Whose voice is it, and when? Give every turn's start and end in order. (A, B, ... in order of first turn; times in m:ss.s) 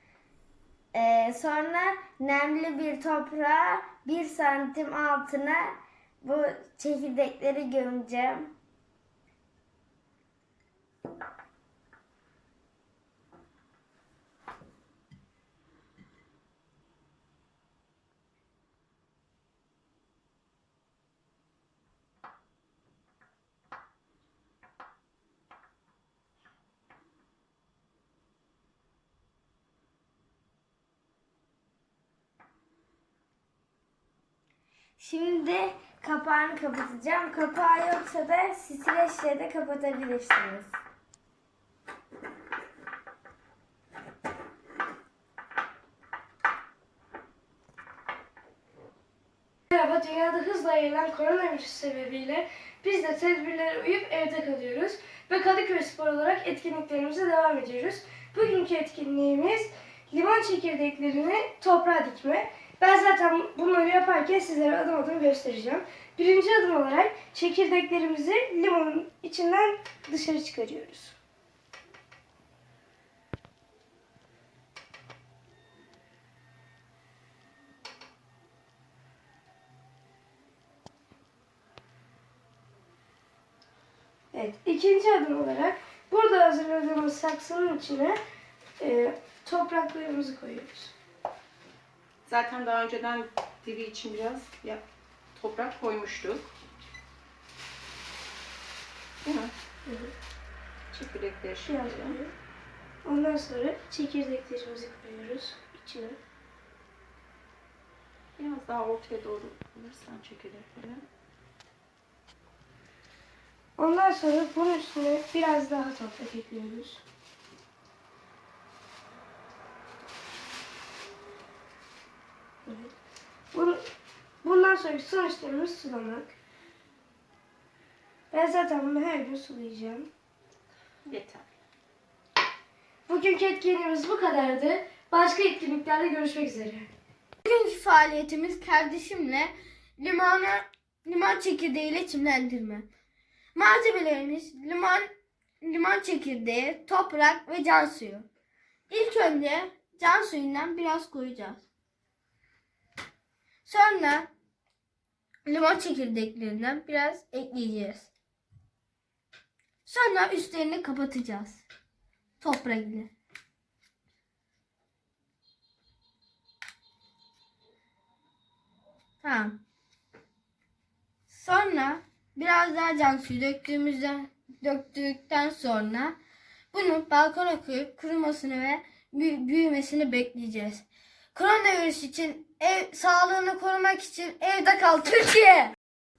0:00.9-0:08.5 A
0:35.0-0:40.8 A
0:49.7-1:11.1 B
1:24.3-1:28.2 B
1:28.8-1:30.9 B
1:32.3-1:34.8 C
1:35.4-1:36.4 C
1:39.2-1:39.5 C
1:39.8-1:40.1 B
1:40.9-1:42.2 C
1:41.6-1:42.3 B
1:43.0-1:46.2 B
1:48.4-1:51.0 C
1:53.8-1:57.0 B
2:02.6-2:02.9 B
2:03.5-2:03.8 B
2:04.4-2:06.3 B
2:08.3-2:10.1 B
2:11.0-2:11.4 C
2:13.1-2:16.9 B
2:17.4-2:22.8 D
2:23.5-2:25.1 D
2:25.6-2:28.3 D
2:28.9-2:31.6 D
2:33.6-2:34.3 D
2:35.4-2:38.1 D
2:39.8-2:41.6 D
2:42.4-2:43.1 D
2:49.2-2:49.6 D
2:51.3-2:56.2 D
2:56.7-3:05.7 D